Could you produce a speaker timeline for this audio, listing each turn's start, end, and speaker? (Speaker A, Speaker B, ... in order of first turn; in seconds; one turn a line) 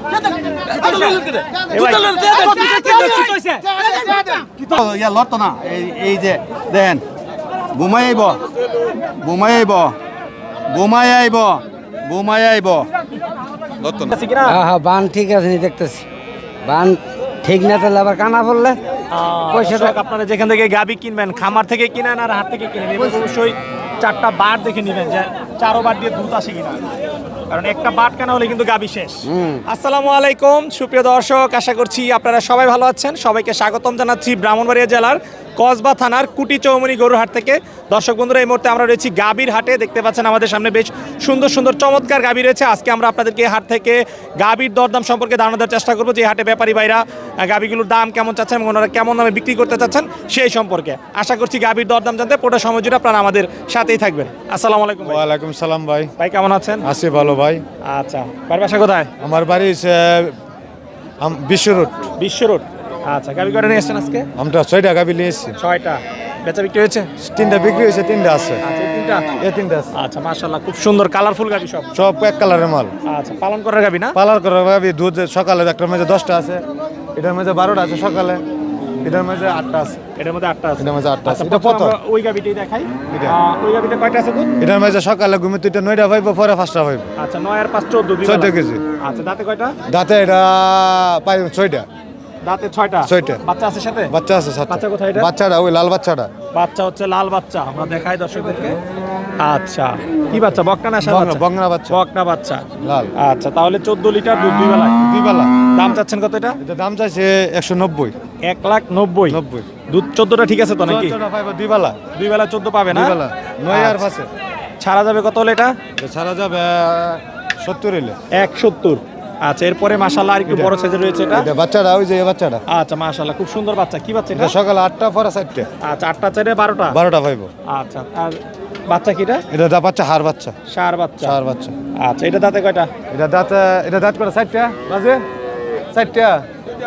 Speaker A: 0.7-3.7
Speaker B: 0.8-2.1
Speaker B: 4.1-7.0
Speaker B: 7.7-8.4
Speaker B: 9.2-9.9
Speaker B: 10.7-12.9
Speaker B: 13.8-14.1
Speaker A: 14.1-14.6
Speaker C: 14.4-16.0
Speaker C: 16.6-18.8
Speaker A: 19.1-26.8
Speaker C: 19.5-20.0
Speaker A: 27.5-55.3
Speaker C: 29.2-29.6
Speaker D: 55.0-56.1
Speaker A: 56.2-56.8
Speaker D: 56.8-57.6
Speaker A: 57.8-59.1
Speaker D: 59.2-60.4
Speaker D: 61.2-61.9
Speaker A: 62.2-64.3
Speaker D: 64.4-65.5
Speaker A: 65.6-67.1
Speaker D: 67.2-68.6
Speaker A: 68.6-69.3
Speaker D: 69.4-69.9
Speaker A: 69.9-71.9
Speaker D: 71.9-72.9
Speaker A: 73.0-74.2
Speaker D: 74.1-76.6
Speaker D: 77.2-78.4
Speaker D: 79.0-80.0
Speaker A: 80.2-84.5
Speaker D: 80.8-81.9
Speaker D: 84.6-87.1
Speaker A: 87.2-89.8
Speaker D: 88.2-88.8
Speaker D: 89.9-91.9
Speaker A: 92.4-94.1
Speaker D: 93.0-93.4
Speaker D: 94.1-96.3
Speaker A: 94.7-95.3
Speaker A: 96.5-98.8
Speaker A: 99.4-102.6
Speaker D: 101.0-102.0
Speaker D: 102.8-103.1
Speaker A: 103.2-105.0
Speaker D: 105.0-105.5
Speaker A: 105.7-106.6
Speaker D: 106.6-108.1
Speaker A: 108.4-111.2
Speaker D: 109.3-109.7
Speaker D: 110.8-111.9
Speaker A: 112.1-113.1
Speaker D: 112.9-114.3
Speaker A: 113.7-114.0
Speaker A: 114.8-115.7
Speaker D: 116.0-118.2
Speaker A: 118.3-121.5
Speaker D: 121.3-122.6
Speaker A: 122.7-124.5
Speaker D: 124.3-125.7
Speaker A: 125.8-127.0
Speaker D: 126.9-127.5
Speaker A: 127.7-129.4
Speaker D: 129.5-130.5
Speaker A: 130.7-131.4
Speaker D: 131.2-131.7
Speaker A: 131.9-132.9
Speaker D: 133.1-135.2
Speaker D: 135.9-136.4